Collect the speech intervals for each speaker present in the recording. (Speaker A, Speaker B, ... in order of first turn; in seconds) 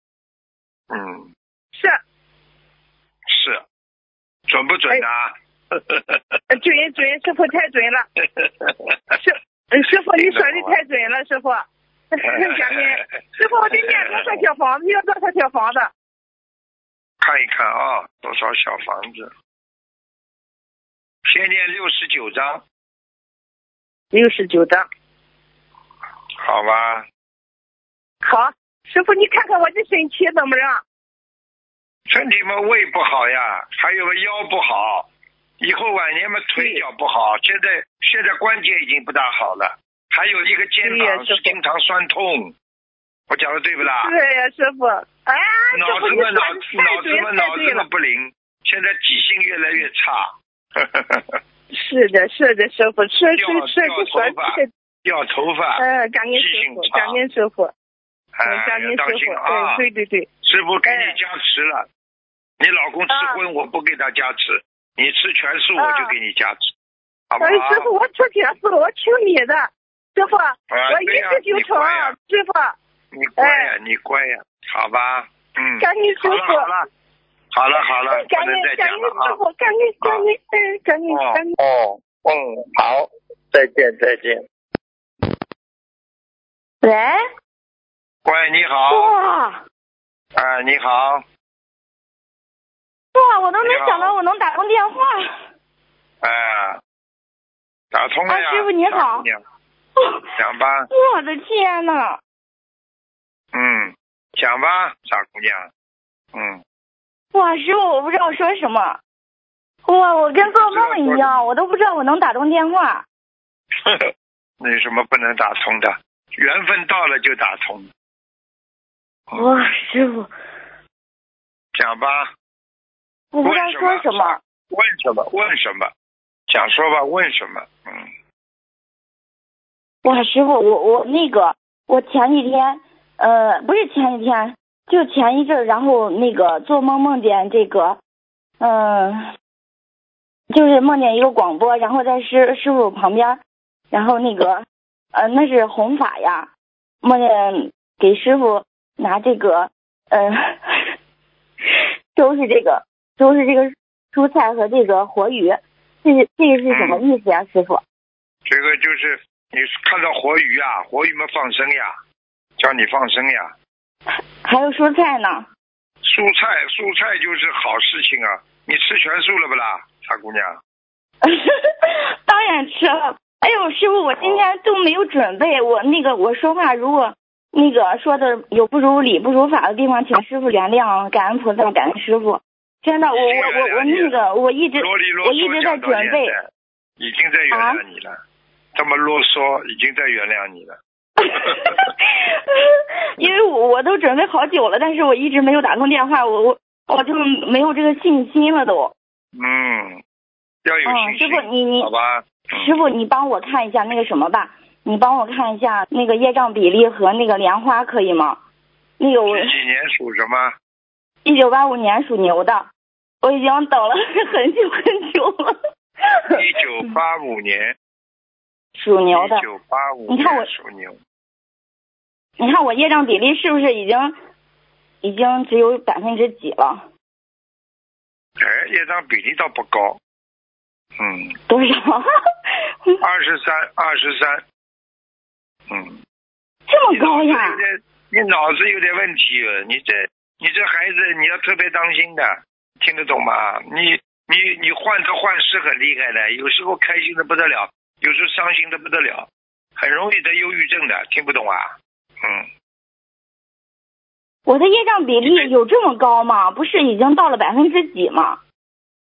Speaker A: 0.9-1.3, 3.3-3.6, 4.5-6.4, 8.3-9.2, 10.1-10.7, 12.2-13.0, 13.7-14.4, 17.2-19.3, 21.2-22.6, 26.4-27.1, 32.1-35.1, 35.6-42.5, 43.3-44.1, 45.7-51.4, 53.4-55.8, 56.3-57.2, 58.3-59.8, 60.4-61.9, 62.6-66.7, 67.3-67.9, 70.7-72.1, 73.1-76.9, 77.5-79.4, 81.1-84.4, 88.2-89.1, 90.3-91.2, 93.6-94.1, 96.2-96.8, 97.9-99.4, 100.4-100.9, 103.5-105.7, 106.3-106.6, 110.4-111.5, 114.6-117.9, 121.7-122.3, 123.4-125.9, 126.5-128.1, 156.7-157.0, 158.4-161.9, 162.6-163.5, 166.0-170.6, 174.2-174.4, 183.1-184.2, 184.8-186.4, 187.0-188.2, 188.7-190.8, 191.3-191.9, 199.3-200.0, 200.6-202.8, 209.3-210.5, 216.3-217.7, 219.1-221.0, 228.4-230.0, 231.0-231.3, 233.0-234.4, 235.7-236.0, 236.9-252.5, 255.2-255.5
Speaker B: 1.7-2.0, 6.5-8.0, 9.2-15.9, 24.1-24.8, 28.2-30.8, 36.5-36.8, 40.8-41.5, 43.8-47.8, 51.7-54.7, 55.8-57.7, 58.5-60.3, 60.9-61.1, 63.1-63.4, 65.8-66.1, 67.4-72.7, 73.4-73.7, 75.8-76.7, 78.0-81.5, 86.8-87.2
Speaker C: 88.9-89.6, 93.1-95.4, 98.3-99.3, 100.0-100.2, 100.9-102.2, 107.3-109.0, 109.8-113.0, 119.3-120.3, 123.3-124.4, 130.0-138.0, 138.6-139.2, 140.5-143.4, 143.9-146.5, 147.0-150.9, 152.1-157.8, 164.1-165.5, 171.2-186.4, 187.5-187.8, 191.2-192.6, 193.2-198.9, 200.8-201.9, 202.5-208.4, 209.0-209.5, 211.2-212.7, 213.2-215.6, 216.1-216.4, 218.8-219.4, 220.1-220.5, 222.4-224.2, 225.0-226.9, 231.5-232.1, 236.7-237.6, 254.4-258.4